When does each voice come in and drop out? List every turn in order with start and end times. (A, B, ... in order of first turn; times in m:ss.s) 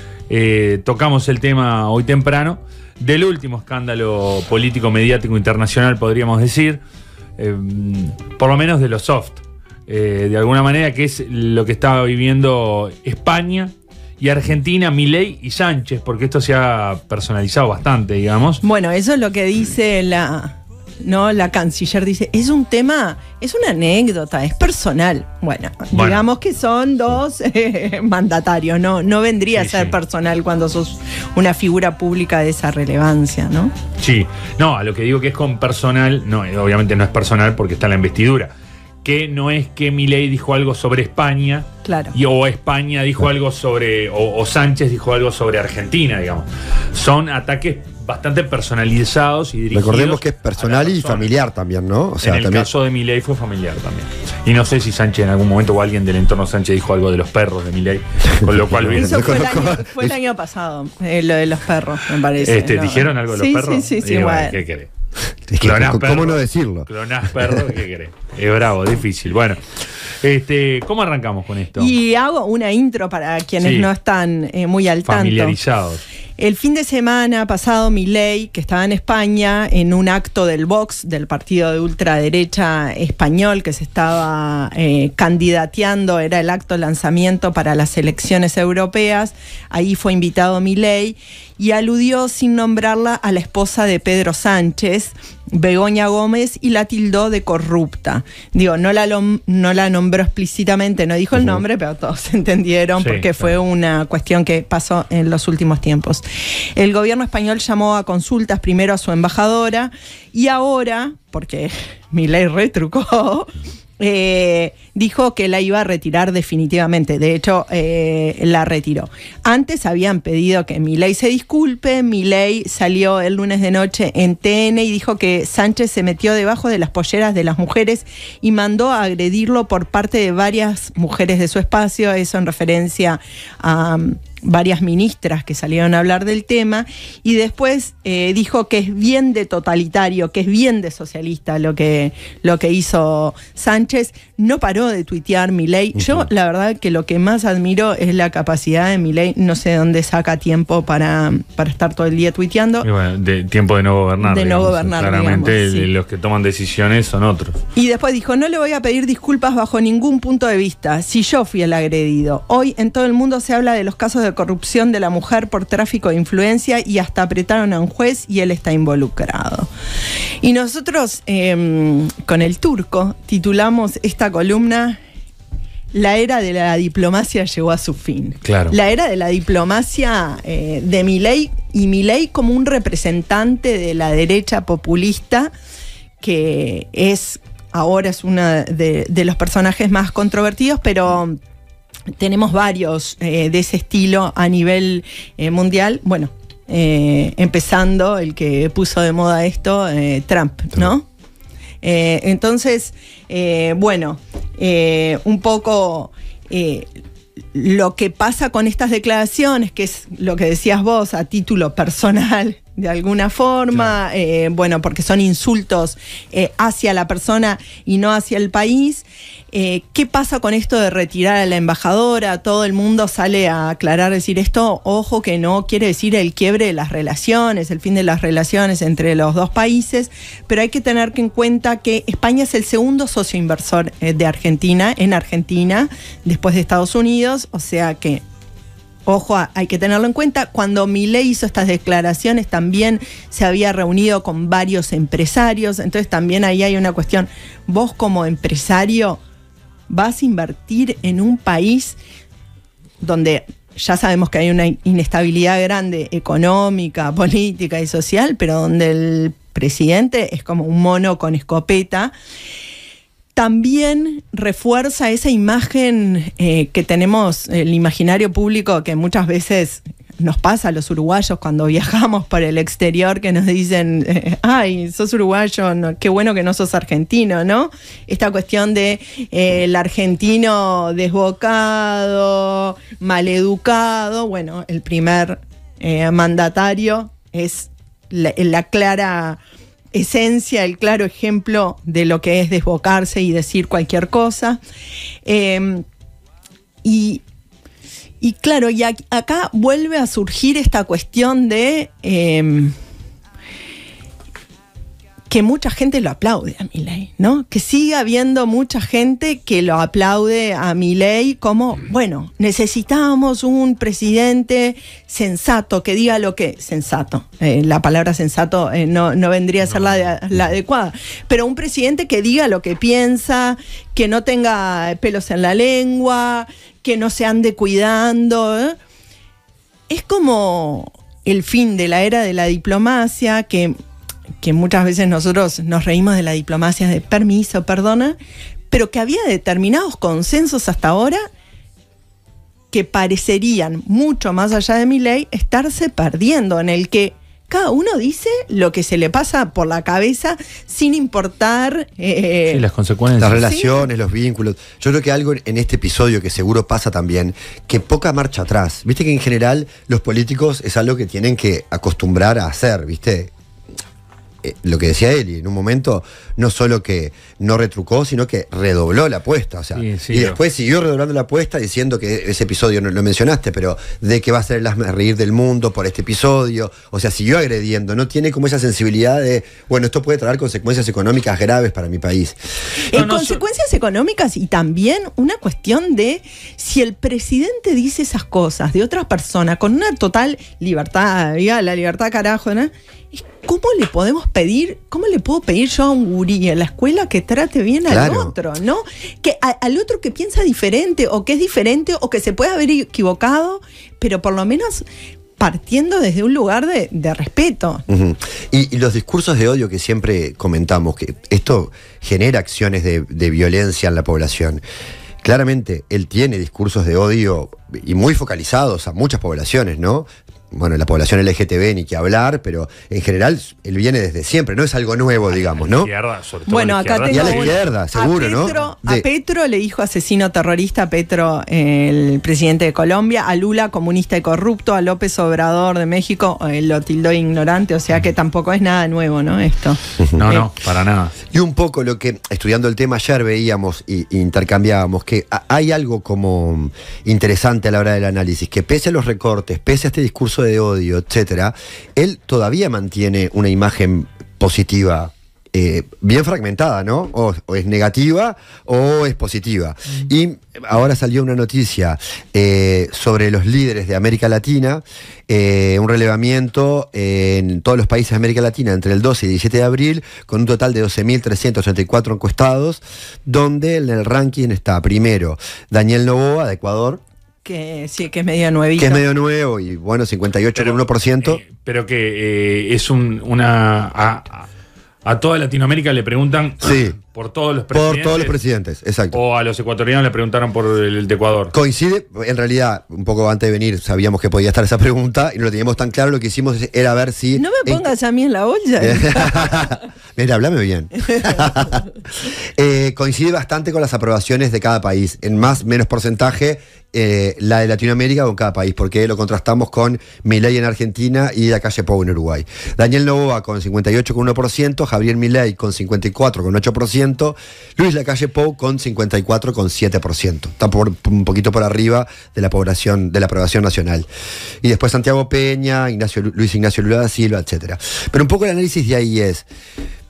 0:00.3-0:06.8 A
0:07.4-0:18.6 A
0:18.6-0:33.7 B
0:25.9-0:26.2 A
0:29.6-0:30.0 A
0:34.0-0:38.5 A
0:39.0-0:51.3 A
0:41.8-0:42.1 B
0:49.7-0:52.7 C
0:52.2-0:59.4 A
0:58.3-1:00.2 C
0:58.9-1:04.6 B
1:02.4-1:04.9 A
1:05.5-1:07.6 C
1:05.6-1:09.6 A
1:10.2-1:11.9 A
1:11.8-1:15.6 B
1:13.6-1:13.9 A
1:15.0-1:16.0 A
1:16.4-2:32.9 B
1:43.0-1:43.5 A
2:32.8-2:37.6 A
2:34.2-2:35.9 B
2:37.8-2:49.7 B
2:50.4-2:55.0 B
2:55.9-3:05.5 B
2:58.4-2:58.8 A
3:06.2-3:11.4 B
3:12.1-3:21.0 B
3:21.8-3:26.9 B
3:27.5-3:58.2 B
3:59.0-4:09.2 B
4:09.9-4:12.0 B
4:13.0-4:22.1 B
4:23.3-4:49.4 B
4:49.9-4:54.6 B
4:55.2-4:55.8 B
4:56.8-4:57.2 B
4:58.2-5:02.7 B
5:05.3-5:28.8 B
5:29.9-5:33.8 B
5:34.4-5:38.2 B
5:38.7-5:41.2 B
5:42.7-5:52.6 B
5:52.5-5:53.4 A
5:53.2-6:03.3 C
5:53.3-5:53.9 B
6:04.4-6:22.4 C
6:09.7-6:10.4 A
6:22.9-6:44.8 B
6:22.9-6:23.4 A
6:37.9-6:38.3 C
6:45.4-6:47.8 B
6:47.9-6:54.6 C
6:55.2-7:05.9 C
7:05.3-7:07.6 A
7:06.5-7:20.5 B
7:07.1-7:09.0 C
7:20.2-7:21.2 A
7:21.3-7:57.0 C
7:57.4-7:59.0 B
7:58.8-8:01.4 C
8:00.5-8:04.5 A
8:05.0-8:08.4 A
8:06.6-8:07.0 C
8:07.7-8:09.2 C
8:09.1-8:11.5 A
8:11.5-8:17.8 C
8:17.4-8:19.7 B
8:18.8-8:44.1 C
8:44.6-8:49.4 C